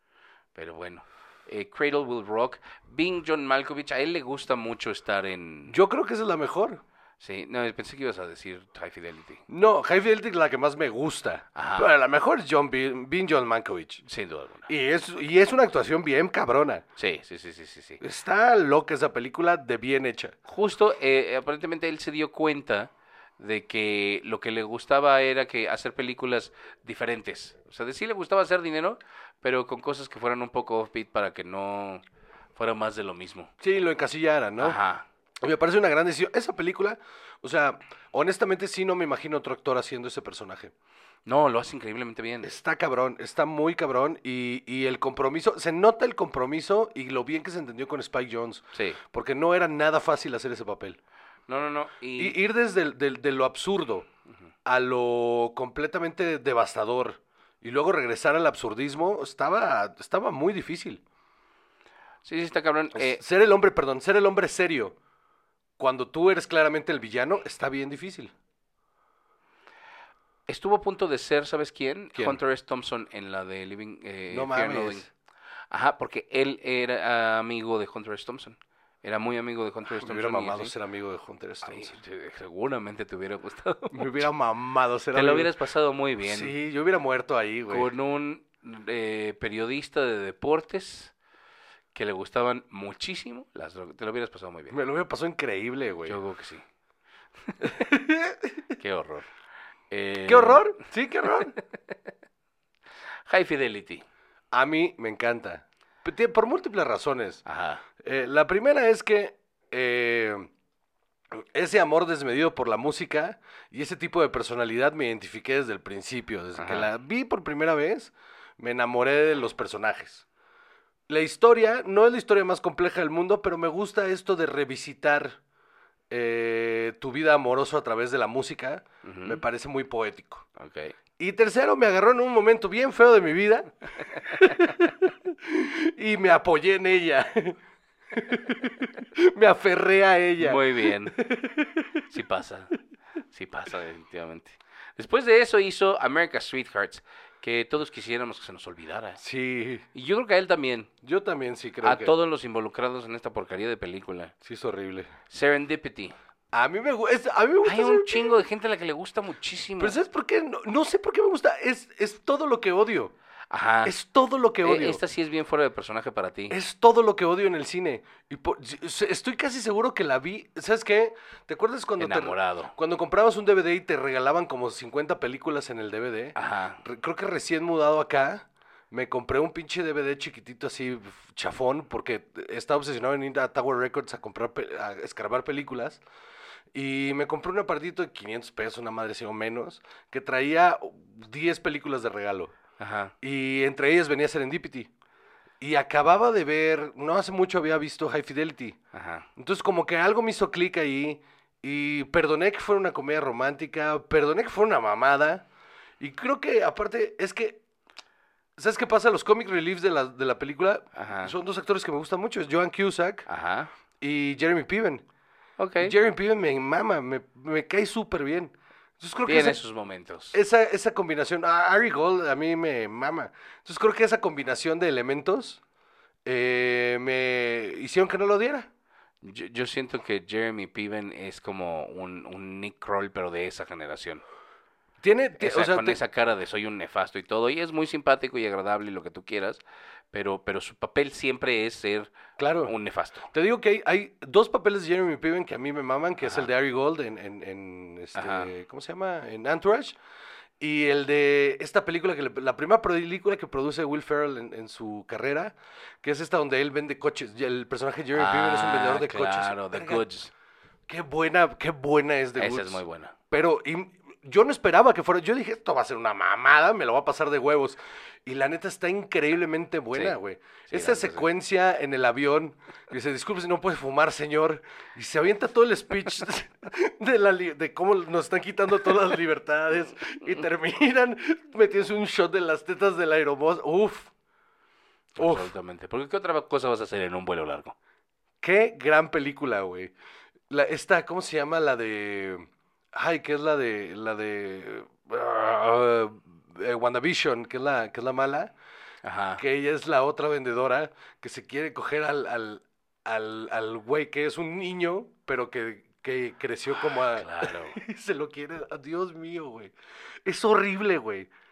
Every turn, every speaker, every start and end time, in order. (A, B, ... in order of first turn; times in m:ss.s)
0:00.5-0:05.8 A
0:05.7-0:06.8 B
0:07.2-0:09.4 A
0:09.5-0:14.0 B
0:11.5-0:11.9 A
0:14.0-0:14.7 A
0:14.7-0:16.8 B
0:17.0-0:18.0 A
0:18.0-0:20.3 B
0:20.4-0:32.0 A
0:32.6-0:33.5 A
0:33.6-0:34.8 B
0:34.6-0:35.0 A
0:35.4-0:40.7 B
0:41.2-0:42.5 A
0:42.4-0:51.0 B
0:48.7-0:49.0 A
0:51.5-0:52.4 A
0:52.2-0:54.1 B
0:54.6-1:01.0 B
1:02.2-1:03.2 A
1:02.9-1:05.0 B
1:05.8-1:08.3 B
1:10.5-1:15.1 A
1:12.1-1:12.4 B
1:14.3-1:15.1 B
1:15.7-1:20.7 A
1:19.9-1:22.0 B
1:21.6-1:24.2 A
1:23.9-1:25.5 B
1:25.1-1:26.5 A
1:26.2-1:27.9 B
1:27.7-1:31.1 A
1:31.9-1:34.8 A
1:34.7-1:36.2 B
1:36.0-1:36.6 A
1:37.6-1:38.6 B
1:38.8-1:39.3 A
1:39.9-1:40.7 A
1:40.2-1:41.5 B
1:43.3-1:44.0 A
1:44.5-1:47.4 B
1:47.4-1:47.8 A
1:48.0-1:50.5 B
1:51.3-2:00.2 B
1:56.6-1:56.9 A
2:01.1-2:05.4 B
2:06.1-2:10.4 B
2:09.0-2:09.4 A
2:10.6-2:11.0 A
2:11.2-2:17.6 B
2:18.1-2:22.1 B
2:20.4-2:21.2 A
2:22.1-2:22.7 A
2:23.3-2:29.2 A
2:29.2-2:29.8 B
2:29.9-2:30.9 A
2:31.0-2:32.1 B
2:31.8-2:34.3 A
2:34.4-2:35.1 B
2:35.3-2:36.2 A
2:36.5-2:38.4 B
2:37.6-2:40.0 A
2:39.8-2:43.1 B
2:43.5-2:43.9 A
2:43.8-2:45.0 B
2:44.6-2:46.6 A
2:46.5-3:06.0 B
2:52.0-2:52.7 A
2:56.3-2:56.8 A
3:06.7-3:12.5 B
3:12.8-3:13.1 A
3:13.2-3:14.9 B
3:15.6-3:18.8 B
3:18.9-3:19.3 A
3:19.4-3:25.4 B
3:26.0-3:27.6 B
3:28.6-3:33.3 B
3:30.9-3:31.3 A
3:33.3-3:33.7 A
3:34.0-3:35.0 B
3:35.6-3:35.9 A
3:35.8-3:39.6 B
3:39.2-3:40.4 A
3:40.3-3:45.6 B
3:46.2-3:48.7 B
3:49.2-3:54.2 A
3:55.0-3:56.0 B
3:55.4-3:59.6 A
4:00.1-4:02.1 A
4:02.4-4:02.7 B
4:02.6-4:03.3 A
4:03.3-4:10.0 B
4:08.1-4:08.5 A
4:10.6-4:20.0 B
4:18.1-4:20.3 A
4:20.9-4:44.1 B
4:22.4-4:23.1 A
4:30.7-4:31.3 A
4:45.2-4:45.5 B
4:45.2-4:47.7 A
4:48.4-4:49.9 B
4:50.5-4:58.5 B
4:59.0-4:59.4 A
4:59.4-5:09.7 B
5:06.8-5:07.8 A
5:10.2-5:11.3 B